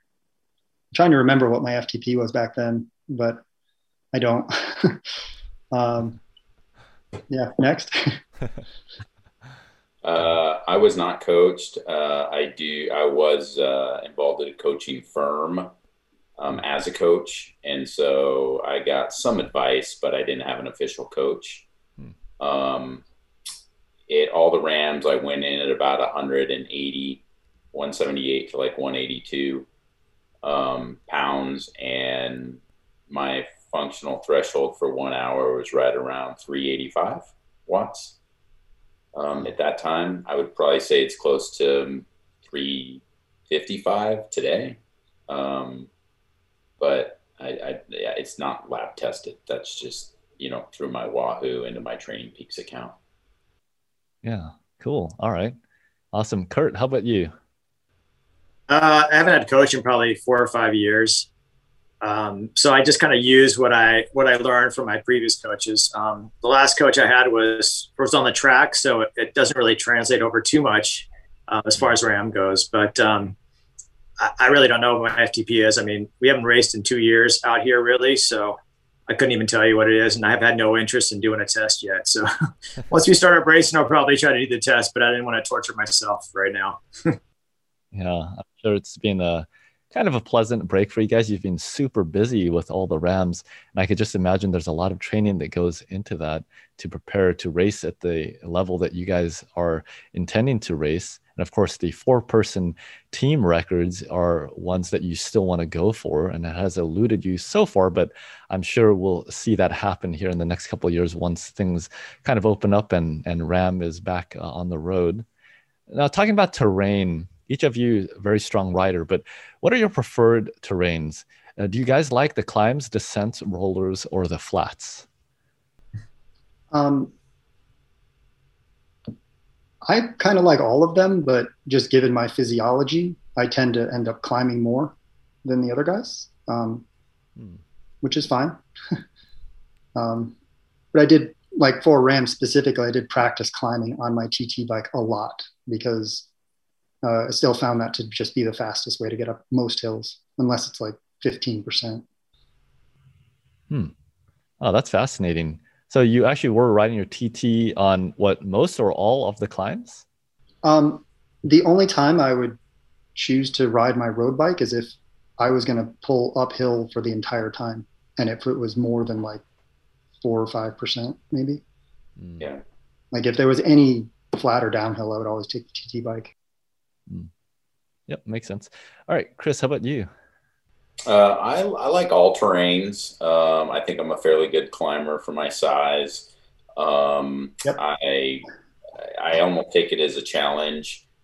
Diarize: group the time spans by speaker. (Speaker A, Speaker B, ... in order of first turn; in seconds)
Speaker A: 0.9-3.4, 4.1-5.0, 5.7-6.2, 7.3-8.2, 126.7-127.1, 129.8-136.8, 138.0-138.6, 139.9-140.4, 140.9-146.3, 147.0-152.0, 160.6-162.6, 163.1-169.4, 170.2-171.6, 173.1-176.3
Speaker B: 10.0-15.7, 16.4-21.6, 22.4-23.0, 24.1-27.2, 27.7-29.6, 30.4-38.1, 39.1-45.9, 46.8-53.0, 181.1-188.5, 189.0-191.0
Speaker C: 54.2-55.6, 56.1-57.3, 87.9-115.2, 115.9-125.1, 154.6-160.1, 172.2-172.5, 178.1-180.1
Speaker D: 58.7-61.3, 62.0-73.4, 74.2-78.6, 79.1-82.3, 82.9-87.2